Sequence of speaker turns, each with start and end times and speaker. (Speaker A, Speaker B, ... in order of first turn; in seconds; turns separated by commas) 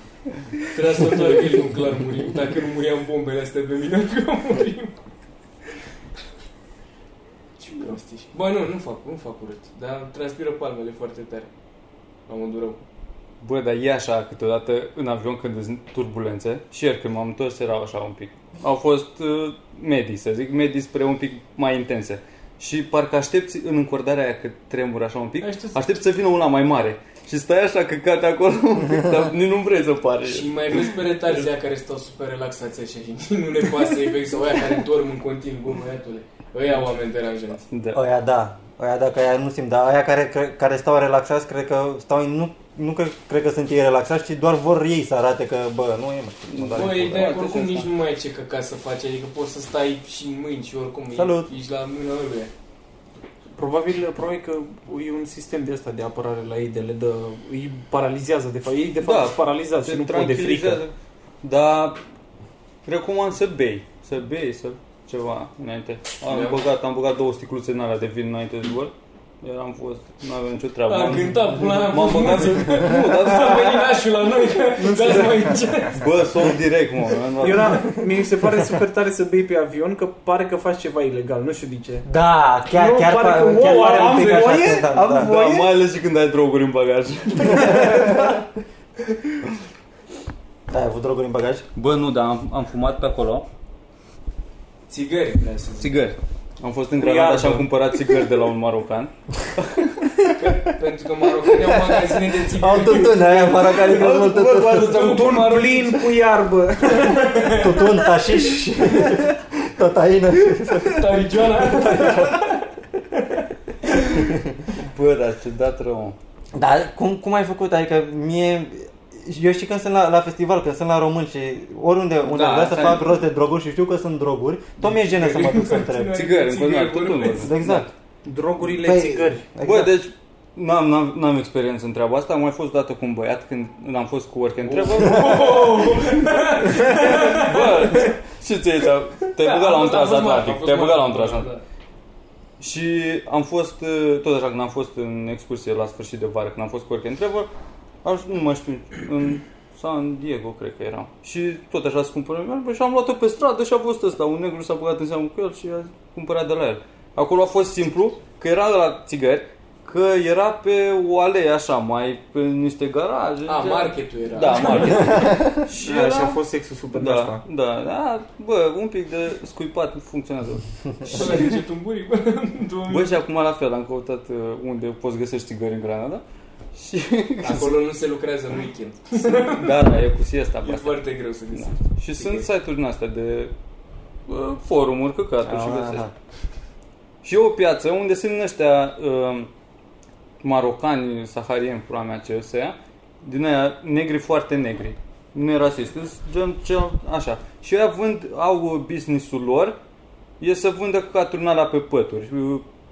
Speaker A: 0.7-5.0, Speaker B: 1.0-1.5, Speaker A: 7.6-11.5, Speaker A: 12.3-12.8, Speaker C: 13.4-31.0, Speaker A: 25.4-25.8, Speaker A: 30.2-37.6, Speaker C: 37.7-38.0, Speaker D: 37.9-47.4, Speaker C: 46.5-47.9, Speaker A: 46.7-52.5, Speaker D: 51.1-51.5, Speaker B: 53.6-60.8, Speaker C: 59.0-62.0, Speaker C: 62.9-74.0, Speaker A: 66.3-66.6, Speaker A: 70.9-76.2, Speaker B: 74.8-75.6, Speaker C: 75.9-78.0, Speaker B: 77.4-82.1, Speaker D: 82.0-85.3, Speaker B: 82.7-85.8, Speaker A: 83.6-84.7, Speaker C: 85.0-88.3, Speaker D: 87.4-88.4, Speaker D: 90.7-91.7, Speaker C: 91.8-93.5, Speaker A: 94.9-96.0, Speaker C: 95.8-100.1, Speaker B: 97.0-97.7, Speaker A: 100.4-106.2, Speaker D: 101.7-105.2, Speaker C: 103.9-105.5, Speaker B: 104.8-107.7, Speaker A: 106.9-107.8, Speaker D: 107.6-112.6, Speaker A: 111.0-112.5, Speaker C: 114.8-116.2, Speaker D: 116.5-126.2, Speaker A: 122.3-123.1, Speaker A: 124.8-127.5, Speaker C: 126.1-127.8, Speaker D: 127.3-127.9, Speaker B: 128.2-129.5, Speaker D: 128.6-130.0, Speaker C: 129.6-141.5, Speaker A: 134.7-138.1, Speaker A: 139.4-141.6, Speaker C: 142.6-147.5, Speaker C: 148.0-166.4, Speaker A: 163.5-165.3, Speaker D: 165.1-165.6, Speaker B: 165.8-167.4, Speaker C: 166.9-171.5, Speaker A: 171.1-173.2, Speaker C: 172.9-176.2, Speaker C: 176.7-177.8, Speaker A: 177.4-179.8, Speaker C: 179.3-183.5, Speaker A: 180.6-182.5, Speaker C: 184.3-186.1, Speaker D: 185.4-186.1, Speaker C: 187.2-189.5, Speaker C: 190.4-199.8, Speaker C: 200.4-202.7